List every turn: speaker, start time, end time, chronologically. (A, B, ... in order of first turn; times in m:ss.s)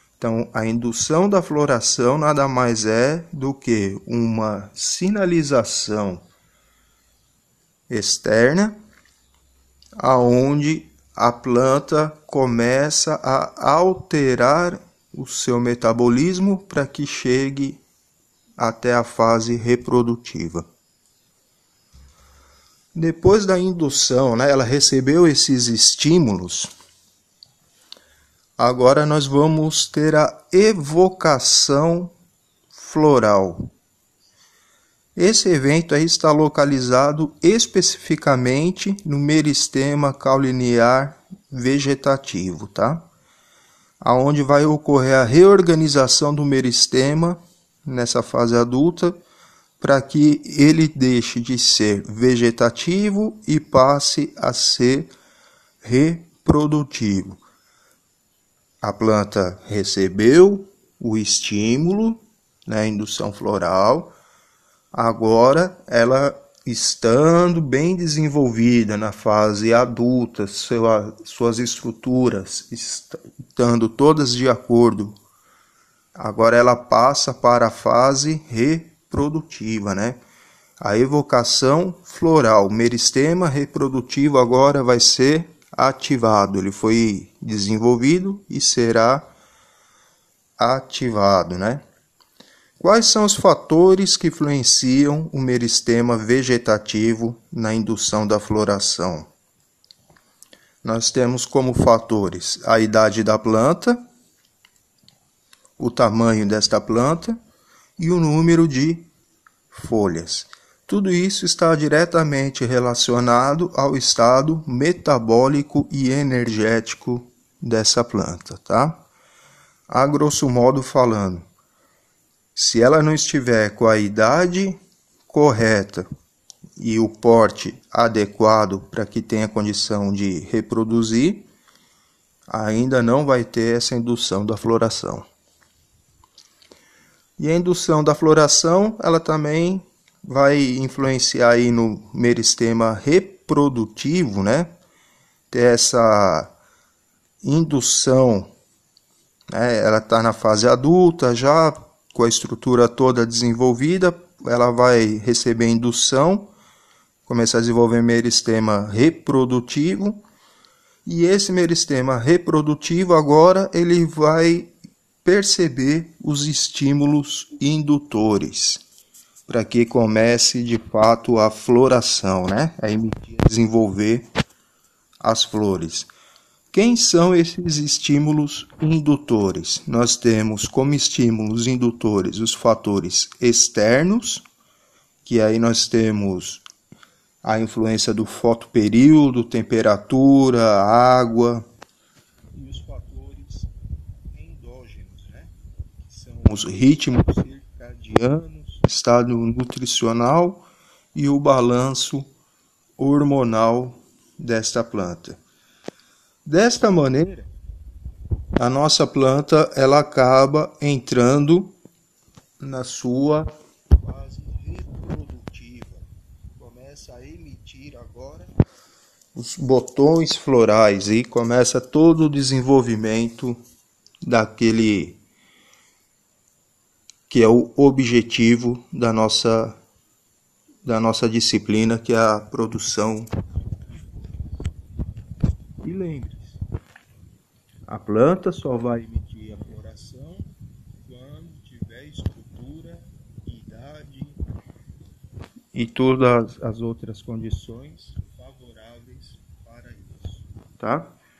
0:00.2-0:06.2 A
0:07.9-0:08.8 A
0:10.0-0:17.8 A
0:18.6-0:20.6 A
0:22.9-0:26.7 A
0:28.6-0:32.1 A
0:32.7-0:33.7 A
0:35.2-0:43.1 A
0:44.0-0:49.2 A
0:49.8-0:55.1 A
0:55.8-0:57.4 A
0:58.8-1:04.1 A
1:04.9-1:15.2 A
1:16.2-1:20.2 A
1:20.8-1:29.3 A
1:30.6-1:31.8 A
1:32.8-1:39.3 A
1:40.8-1:44.0 A
1:45.8-1:47.4 A
1:48.0-1:49.1 A
1:49.7-1:59.0 A
1:59.9-2:01.4 A
2:02.6-2:04.8 A
2:05.3-2:06.0 A
2:06.8-2:11.5 A
2:12.5-2:15.3 A
2:17.4-2:24.7 A
2:25.5-2:26.5 A
2:27.4-2:28.5 A
2:29.5-2:36.5 A
2:37.2-2:40.2 A
2:41.1-2:44.7 A
2:45.2-2:48.8 A
2:49.5-2:54.2 A
2:55.2-2:56.1 A
2:56.7-3:04.4 A
3:05.2-3:06.6 A
3:07.4-3:11.6 A
3:12.5-3:13.7 A
3:14.3-3:15.5 A
3:16.1-3:22.2 A
3:23.0-3:25.4 A
3:26.5-3:27.5 A
3:28.6-3:31.8 A
3:32.6-3:36.0 A
3:36.6-3:38.5 A
3:39.4-3:43.6 A
3:44.2-3:45.2 A
3:47.3-3:49.8 A
3:50.8-3:53.3 A
3:55.8-3:56.6 A
3:57.9-4:00.5 A
4:01.0-4:04.4 A
4:05.7-4:11.1 A